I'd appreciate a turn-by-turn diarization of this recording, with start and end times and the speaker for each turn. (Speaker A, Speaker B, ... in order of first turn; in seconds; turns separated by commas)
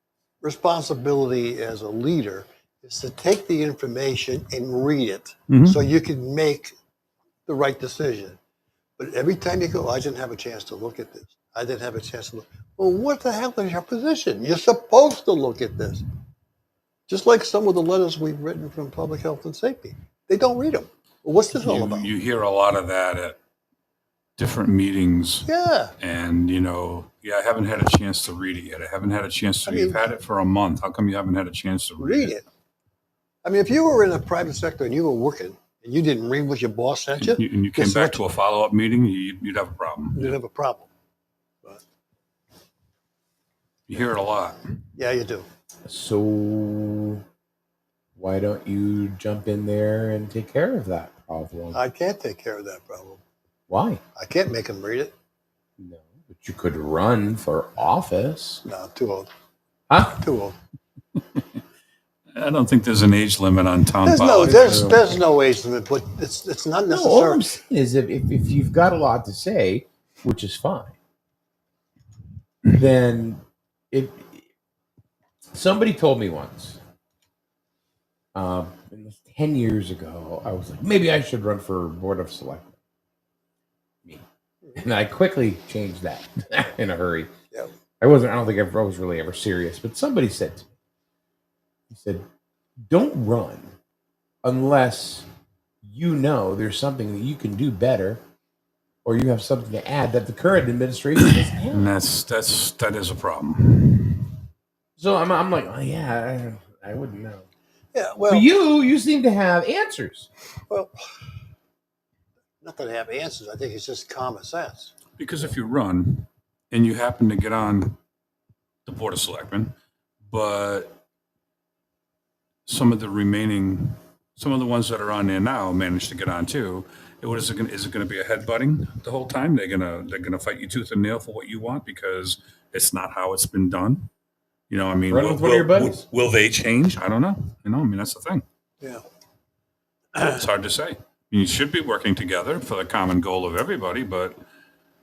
Speaker A: 0.4-6.8, Speaker B: 5.5-5.8, Speaker A: 7.5-8.4, Speaker A: 9.0-16.0, Speaker A: 17.1-22.1, Speaker B: 21.6-23.4, Speaker B: 24.4-25.5, Speaker A: 25.5-25.9, Speaker B: 26.0-32.3, Speaker A: 29.7-30.1, Speaker A: 32.0-32.5, Speaker A: 33.4-38.2, Speaker B: 37.2-40.4, Speaker A: 40.1-40.9, Speaker B: 43.9-44.6, Speaker A: 45.0-45.5, Speaker C: 45.9-47.2, Speaker C: 48.2-51.8, Speaker A: 51.7-53.2, Speaker C: 53.7-54.0, Speaker A: 54.1-55.1, Speaker C: 55.8-58.6, Speaker A: 58.6-59.3, Speaker C: 59.9-60.2, Speaker A: 60.1-60.5, Speaker B: 62.3-64.7, Speaker A: 64.0-67.5, Speaker C: 64.4-65.2, Speaker C: 66.9-71.0, Speaker C: 72.7-74.4, Speaker C: 75.5-76.8, Speaker C: 78.3-82.8, Speaker C: 84.8-87.3, Speaker C: 88.0-90.7, Speaker C: 91.9-92.2, Speaker C: 92.9-93.7, Speaker C: 94.4-95.3, Speaker C: 95.8-98.2, Speaker C: 99.0-101.9, Speaker B: 101.2-104.3, Speaker C: 105.0-107.5, Speaker A: 107.9-108.5, Speaker C: 108.3-110.3, Speaker A: 110.7-110.9, Speaker A: 112.6-114.9, Speaker B: 115.2-118.0, Speaker B: 118.9-119.7, Speaker B: 120.3-121.0, Speaker B: 122.7-134.1, Speaker B: 134.7-138.4, Speaker C: 135.1-136.0, Speaker A: 140.2-140.4, Speaker B: 140.2-144.4